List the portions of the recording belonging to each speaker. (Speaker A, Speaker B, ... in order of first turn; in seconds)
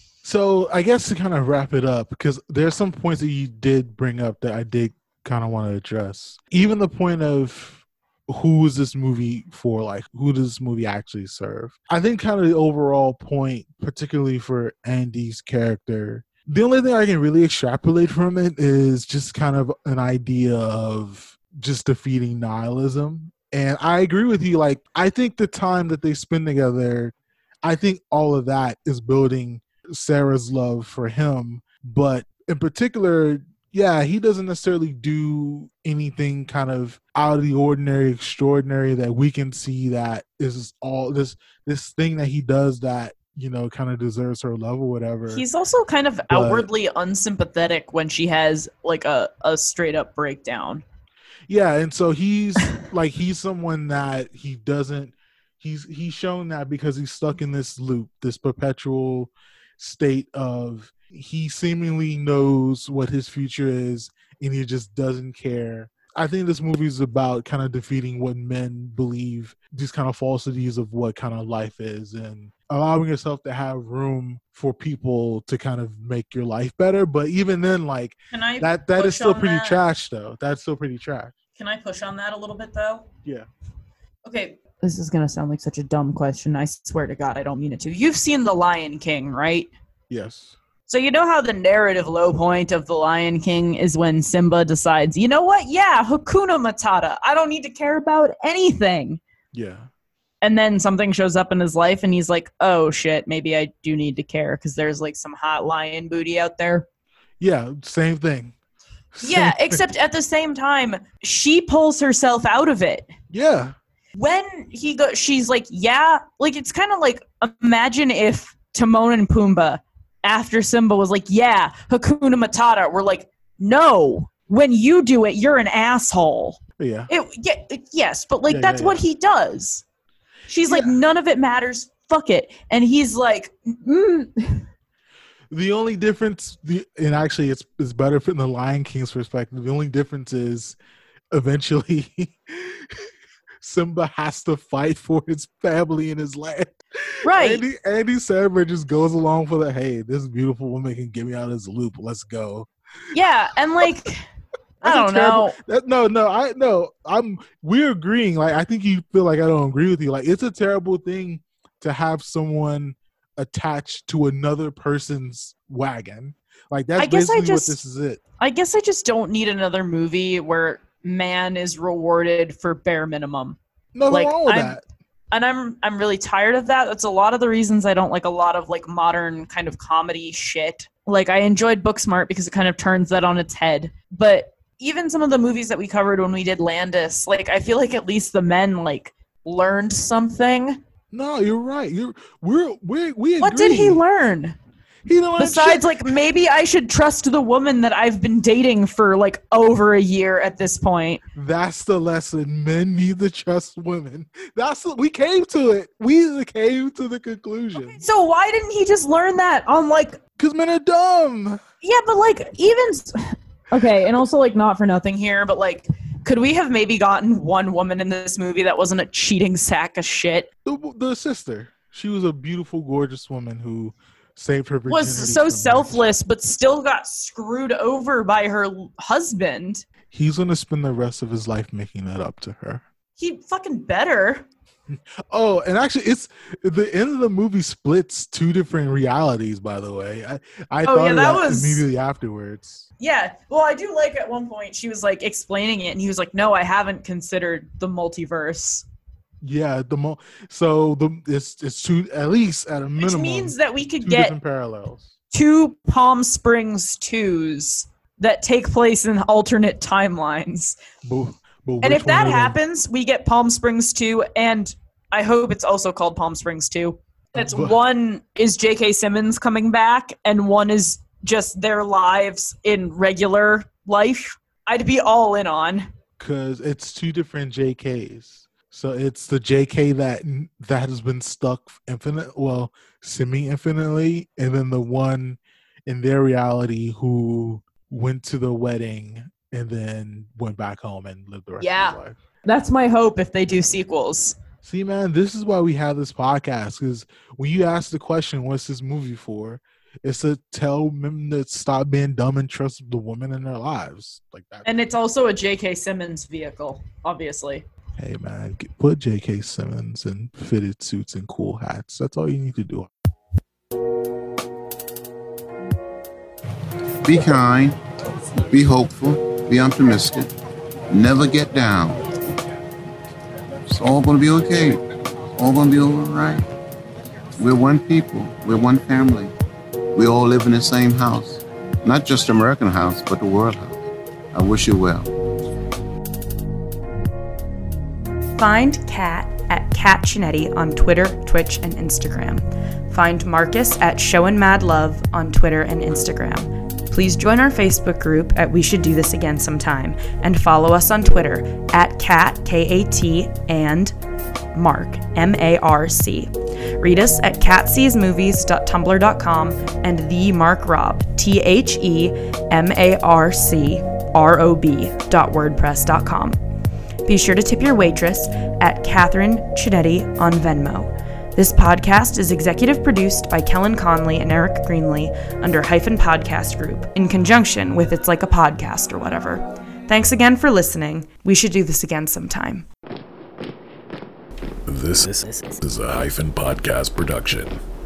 Speaker A: 0.2-45.4, 46.3-46.7, 51.5-81.3, 90.1-90.6, 99.5-99.9, 107.4-108.5, 109.2-109.8, 113.3-113.7, 126.8-127.1, 128.5-129.0, 130.7-130.9, 135.5-140.8, 141.3-143.1, 143.6-152.7, 154.8-168.2, 173.9-174.8, 191.1-194.0, 195.1-196.1, 201.3-208.0, 210.4-211.6, 220.7-226.0, 230.1-232.8, 235.3-242.8, 249.4-255.1, 261.0-262.6, 267.3-267.8, 276.2-292.2, 294.6-304.7, 308.0-312.9
Speaker B: 45.3-50.8, 78.3-79.8, 81.6-83.1, 84.2-89.7, 90.9-99.2, 100.4-106.8, 109.2-113.1, 114.2-129.8, 130.5-134.7, 147.2-147.6, 153.1-154.2, 154.8-155.5, 167.0-167.8, 168.4-173.6, 174.1-174.8, 175.3-190.8, 193.4-194.6, 195.4-201.2, 207.7-210.2, 211.8-220.5, 224.9-229.8, 233.2-234.4, 240.8-241.8, 243.0-248.8, 253.0-254.3, 255.3-260.8, 261.8-275.9, 291.6-294.4, 304.6-307.6
Speaker C: 317.0-317.8, 318.5-320.3, 320.9-322.0, 323.7-324.8, 325.4-326.4, 327.4-329.3, 329.9-333.8, 334.3-335.1
Speaker D: 338.3-353.9, 354.5-366.4, 367.0-382.6
Speaker E: 384.7-387.6